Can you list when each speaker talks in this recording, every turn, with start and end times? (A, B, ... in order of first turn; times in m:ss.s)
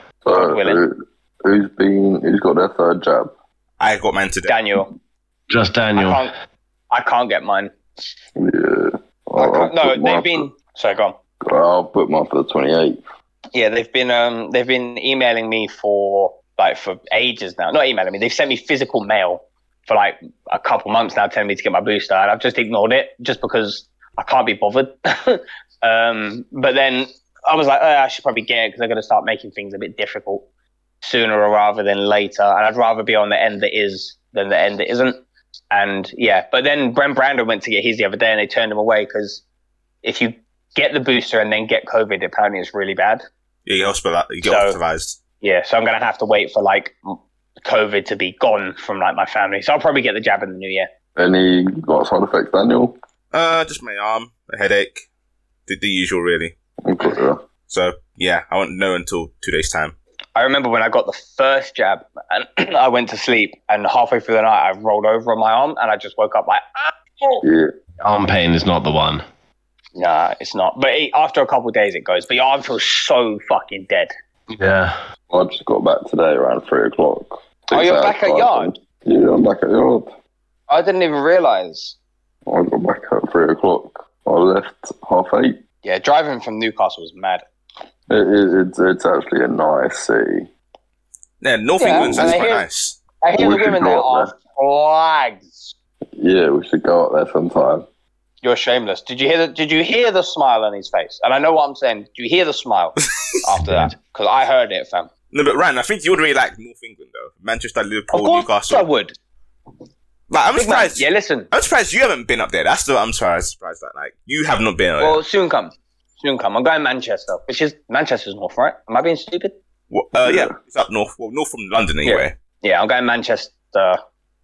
0:00.2-0:03.3 A
0:00.3-0:00.8 B
0:03.8-0:04.6 C
0:04.5-0:04.9 B
0:05.5-0:06.2 D
0:06.0-0:06.3 B
0:06.9-0:07.7 B
0:08.4-0:10.5 A
0:09.4-0:11.2 B
0:11.4-0:13.0 A
0:13.5-0:30.4 B
0:31.0-0:35.2 B
0:35.7-0:39.4 B
0:40.0-0:43.2 B
0:43.6-0:45.2 C
0:44.4-0:44.8 B
0:45.4-0:50.9 B
0:51.2-0:52.9 A
0:53.3-0:55.0 C
0:55.7-0:56.5 C
0:56.8-0:57.4 A
0:57.7-0:59.9 C
1:00.4-1:07.4 B
1:07.4-1:07.7 A
1:08.0-1:09.2 D
1:10.0-1:14.1 B
1:14.5-1:15.0 D
1:15.3-1:20.1 A
1:17.7-1:18.7 B
1:20.7-1:22.0 B
1:22.5-1:25.6 A
1:25.8-1:27.4 B
1:28.1-1:30.5 A
1:31.4-1:33.0 C
1:31.8-1:32.6 B
1:31.8-1:32.4 A
1:33.2-1:35.7 B
1:33.4-1:34.3 A
1:36.2-1:37.8 A
1:38.4-1:45.1 B
1:43.6-1:43.9 D
1:45.3-1:48.9 C
1:48.1-1:49.1 B
1:50.3-1:55.2 C
1:50.5-1:51.5 B
1:55.0-1:59.5 B
1:59.9-2:02.4 C
2:00.2-2:00.5 A
2:02.0-2:04.0 B